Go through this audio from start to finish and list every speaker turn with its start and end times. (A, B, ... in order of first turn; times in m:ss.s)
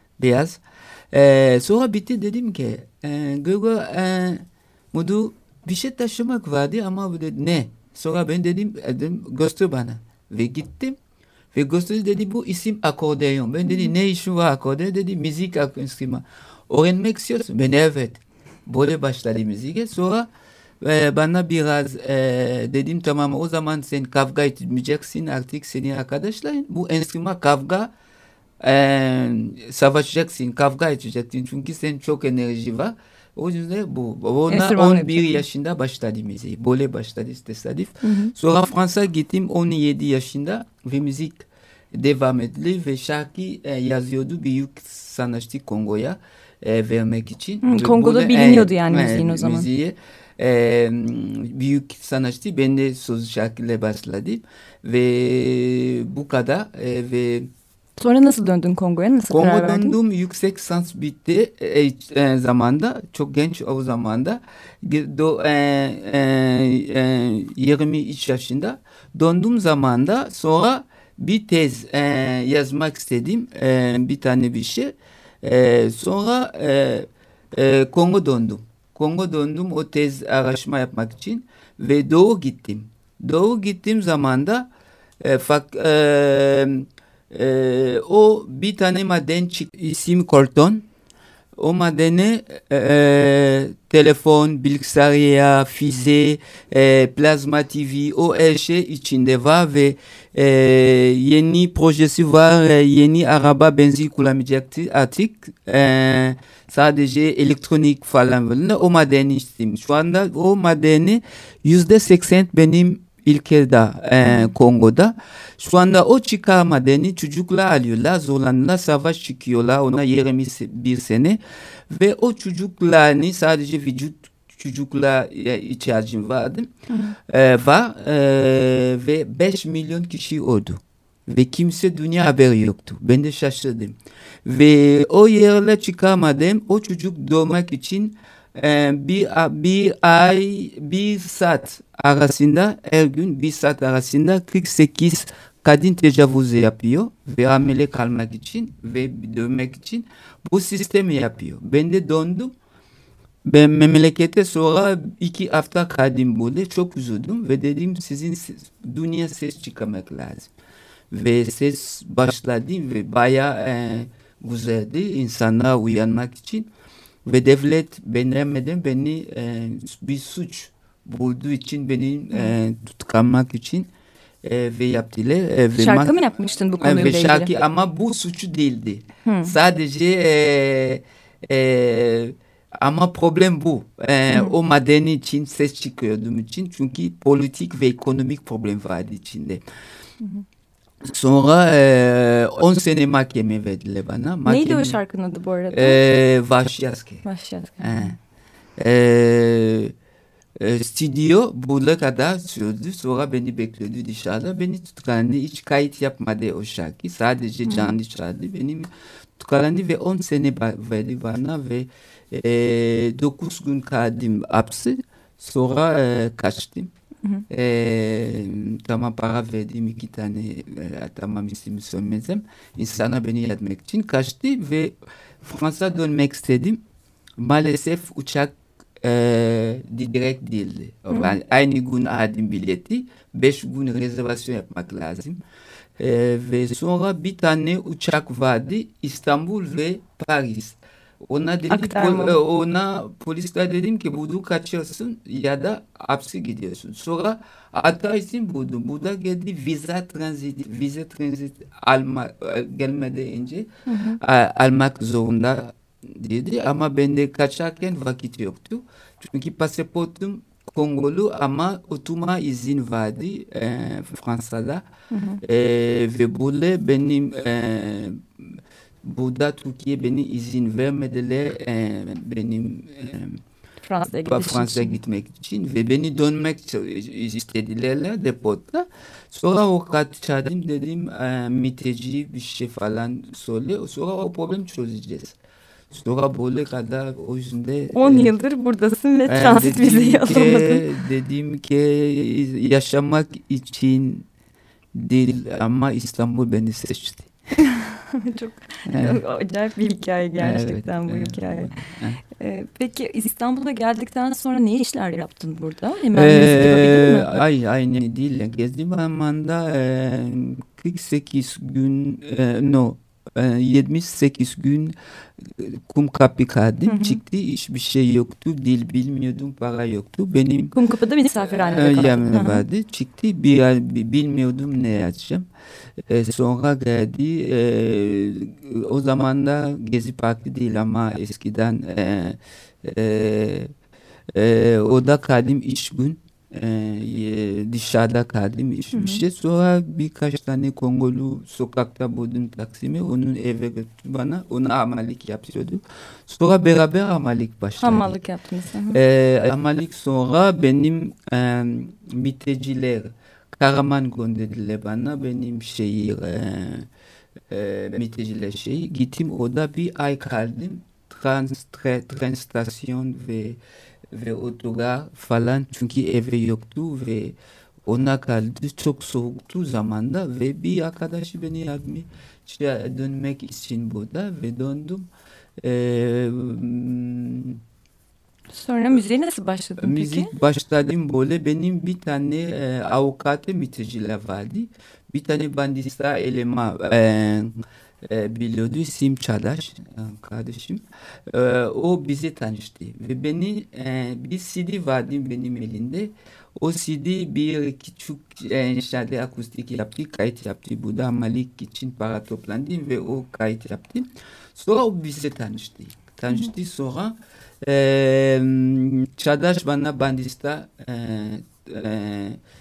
0:00.2-0:11.0 A
0:11.5-0:20.3 A
0:20.8-0:27.9 A
0:28.6-0:57.5 A
0:34.5-0:35.4 B
0:38.0-0:38.3 B
0:47.6-0:49.7 B
0:58.0-1:00.0 B
0:59.3-1:24.7 A
1:25.2-1:30.9 A
1:31.6-2:01.4 A
1:54.2-1:54.5 B
2:01.9-2:06.7 A
2:06.9-2:07.2 B
2:07.3-2:32.6 A
2:33.5-2:40.5 A
2:41.1-2:46.7 A
2:47.2-2:53.9 A
2:54.4-2:56.2 A
2:55.8-2:57.5 B
2:56.8-3:09.6 A
2:59.3-2:59.6 B
3:04.3-3:04.6 B
3:11.1-3:15.0 A
3:14.5-3:16.0 B
3:15.7-3:17.2 A
3:17.2-3:18.1 B
3:17.8-3:18.2 A
3:18.8-3:19.9 A
3:20.6-3:36.9 A
3:27.7-3:27.9 B
3:37.5-3:46.8 A
3:47.4-3:55.4 A
3:51.1-3:51.4 B
3:56.0-4:13.7 A
4:01.7-4:02.4 B
4:13.9-4:14.2 B
4:14.2-4:24.8 A
4:25.1-4:25.4 B
4:25.4-4:33.4 A
4:33.8-4:35.0 B
4:34.1-4:45.4 A
4:45.9-4:48.3 A
4:47.9-4:50.8 B
4:49.3-4:54.3 A
4:55.0-4:57.3 A
4:57.6-5:01.8 B
4:58.9-4:59.2 A
5:00.4-5:02.2 A
5:02.4-5:07.4 B
5:06.1-5:20.8 A
5:16.9-5:17.2 B
5:20.7-5:22.6 B
5:21.4-5:25.5 A
5:26.1-5:33.7 A
5:34.4-5:48.2 A
5:38.9-5:39.2 B
5:47.8-5:49.0 B
5:48.9-5:56.9 A
5:57.5-6:03.6 A
6:04.1-6:15.1 A
6:15.6-6:17.6 A
6:18.5-6:20.3 B
6:19.8-6:52.4 A